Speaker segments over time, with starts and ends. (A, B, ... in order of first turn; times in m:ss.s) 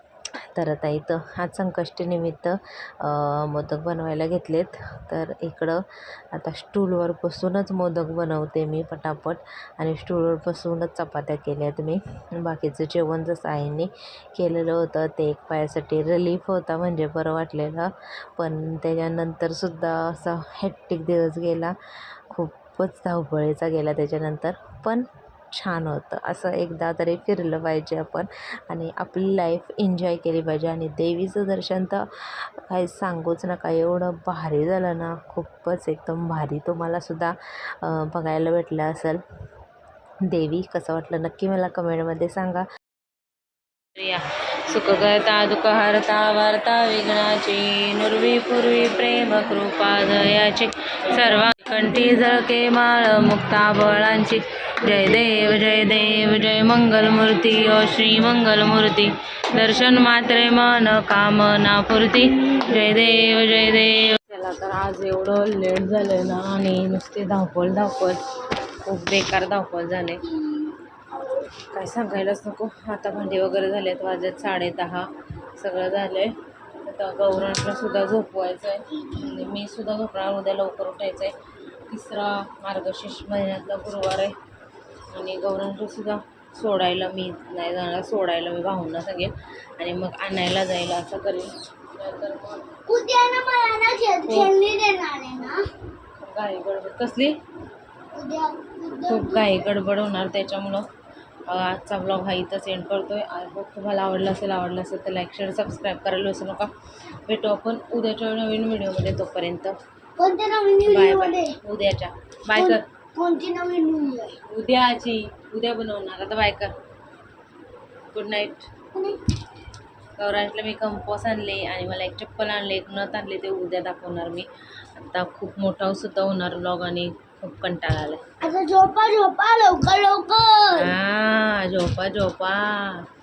0:00.6-0:21.8 A
0:22.3-0:39.2 A
0:40.3-0:42.6 A
0:44.0-1:10.2 A
1:11.7-1:21.3 A
1:21.9-1:24.3 A
1:25.1-1:32.7 A
1:32.9-1:35.6 B
1:34.3-1:34.5 A
1:36.2-1:37.4 A
1:38.1-1:39.7 B
1:39.0-1:40.8 A
1:41.5-1:46.7 A
1:47.3-1:49.8 A
1:50.2-1:51.5 B
1:50.8-1:52.8 A
1:52.6-1:54.4 B
1:54.5-1:56.7 A
1:58.1-1:58.7 A
1:58.9-1:59.2 B
2:00.2-2:08.2 A
2:08.4-2:10.9 B
2:10.8-2:13.0 A